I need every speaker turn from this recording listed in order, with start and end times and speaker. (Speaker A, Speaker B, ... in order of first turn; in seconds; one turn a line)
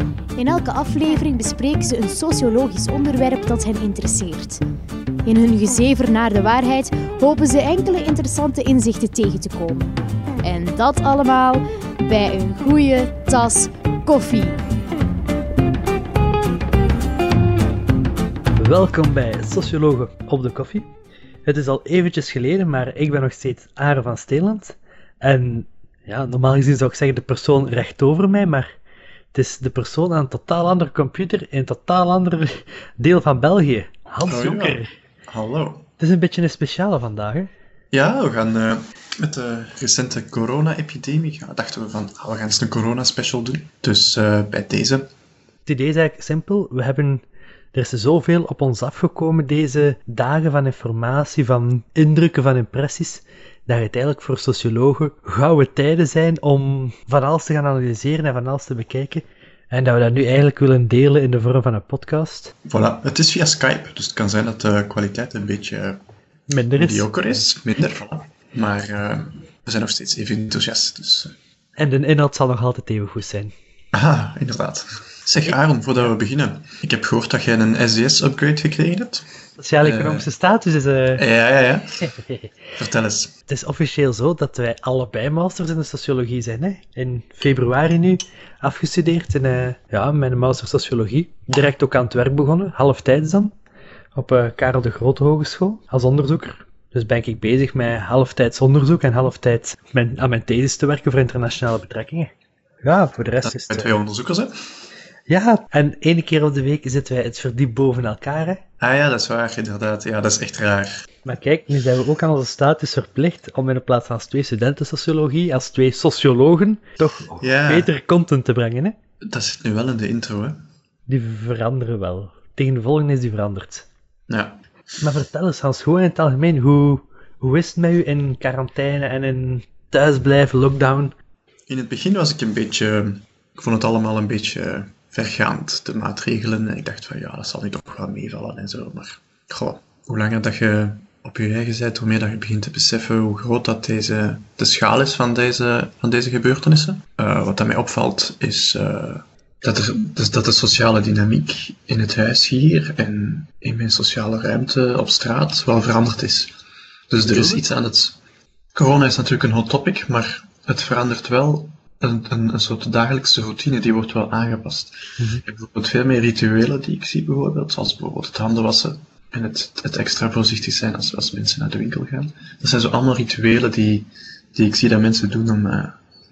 Speaker A: 0.4-4.6
Speaker A: 5.3-9.8
Speaker A: 10.4-14.6
Speaker B: 18.6-20.9
Speaker B: 21.5-28.7
Speaker B: 29.3-34.9
Speaker C: 34.3-35.9
Speaker B: 36.0-37.5
Speaker C: 37.9-45.1
Speaker B: 45.7-47.2
Speaker B: 47.7-62.5
Speaker C: 62.6-66.0
Speaker B: 66.5-67.1
Speaker C: 66.8-71.3
Speaker B: 71.8-73.5
Speaker C: 73.9-79.2
Speaker B: 79.6-81.2
Speaker C: 79.8-80.3
Speaker C: 81.2-82.1
Speaker B: 82.0-82.6
Speaker C: 82.8-83.3
Speaker B: 83.5-93.5
Speaker B: 94.2-102.3
Speaker B: 102.8-103.9
Speaker C: 103.4-104.5
Speaker B: 105.3-108.6
Speaker C: 108.8-111.1
Speaker B: 111.2-119.0
Speaker C: 117.4-117.9
Speaker C: 119.2-120.7
Speaker B: 121.1-123.9
Speaker C: 124.3-124.6
Speaker B: 125.0-131.1
Speaker C: 131.7-156.5
Speaker C: 157.1-158.2
Speaker B: 157.2-157.6
Speaker C: 158.8-175.9